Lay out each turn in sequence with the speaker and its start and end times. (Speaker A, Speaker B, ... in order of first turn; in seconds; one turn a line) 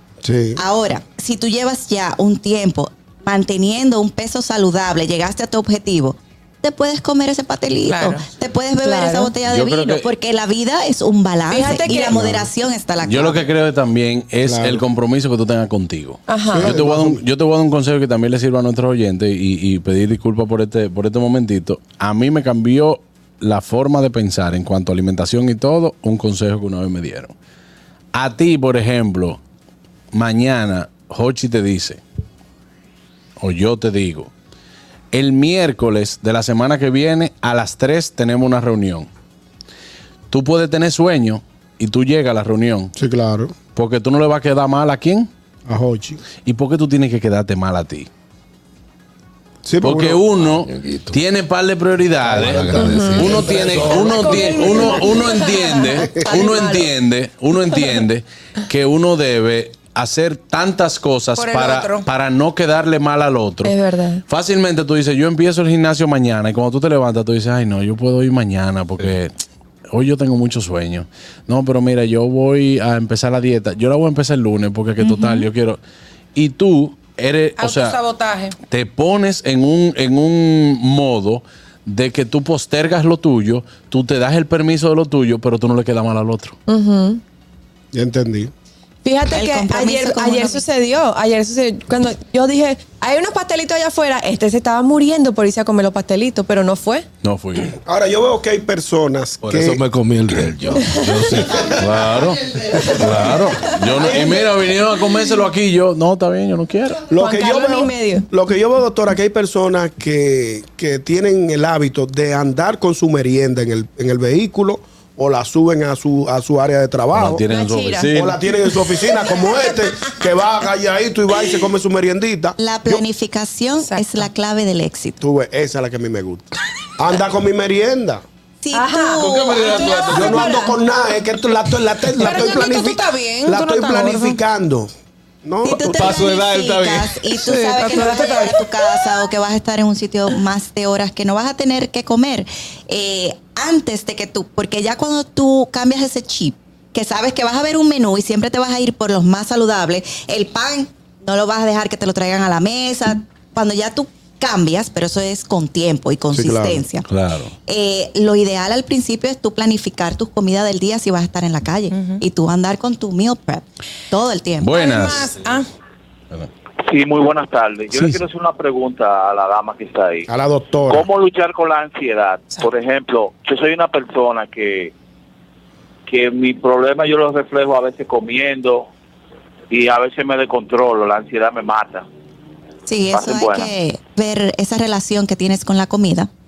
Speaker A: 0.2-0.6
Speaker B: 0.6-13.4
Speaker C: 7.9-8.3
Speaker D: 8.8-9.3
Speaker E: 9.4-10.1
Speaker D: 11.5-12.3
Speaker E: 13.0-27.3
Speaker A: 14.4-14.8
Speaker D: 16.3-16.8
Speaker A: 16.5-17.2
Speaker E: 28.1-29.4
Speaker E: 30.1-32.0
Speaker E: 33.4-34.3
Speaker E: 35.1-39.1
Speaker E: 40.3-42.9
Speaker A: 43.0-43.5
Speaker E: 43.8-45.3
Speaker A: 45.7-46.2
Speaker E: 46.4-48.1
Speaker A: 49.6-50.2
Speaker E: 49.8-69.3
Speaker F: 50.4-51.2
Speaker A: 52.2-55.0
Speaker F: 52.4-54.1
Speaker D: 52.8-53.3
Speaker D: 54.0-56.9
Speaker C: 61.4-62.1
Speaker D: 63.6-64.2
Speaker E: 69.9-75.8
Speaker E: 76.3-78.0
Speaker C: 77.6-78.6
Speaker E: 78.7-86.6
Speaker D: 86.7-87.2
Speaker A: 87.9-88.5
Speaker D: 89.0-97.1
Speaker B: 89.3-90.6
Speaker E: 97.2-97.8
Speaker A: 97.8-99.8
Speaker F: 99.4-101.8
Speaker E: 101.8-107.1
Speaker A: 104.0-104.4
Speaker A: 107.1-117.4
Speaker D: 107.1-108.3
Speaker E: 117.1-118.4
Speaker D: 117.4-118.2
Speaker A: 118.1-123.0
Speaker D: 119.2-119.5
Speaker B: 122.6-125.2
Speaker C: 123.8-124.3
Speaker A: 125.2-128.2
Speaker B: 128.6-130.4
Speaker D: 128.7-130.8
Speaker F: 129.2-130.4
Speaker A: 130.1-134.9
Speaker C: 132.2-134.4
Speaker A: 135.4-136.1
Speaker B: 135.6-157.1
Speaker F: 135.7-137.8
Speaker C: 137.7-138.6
Speaker D: 137.9-138.2
Speaker A: 156.3-156.8
Speaker E: 157.1-157.5
Speaker B: 157.7-164.8
Speaker C: 161.9-162.2
Speaker E: 164.6-165.4
Speaker C: 164.7-165.7
Speaker G: 166.8-170.3
Speaker E: 167.9-168.2
Speaker A: 170.3-171.1
Speaker G: 170.9-174.9
Speaker G: 176.1-178.9
Speaker G: 179.7-182.1
Speaker B: 182.9-186.3
Speaker G: 183.1-183.7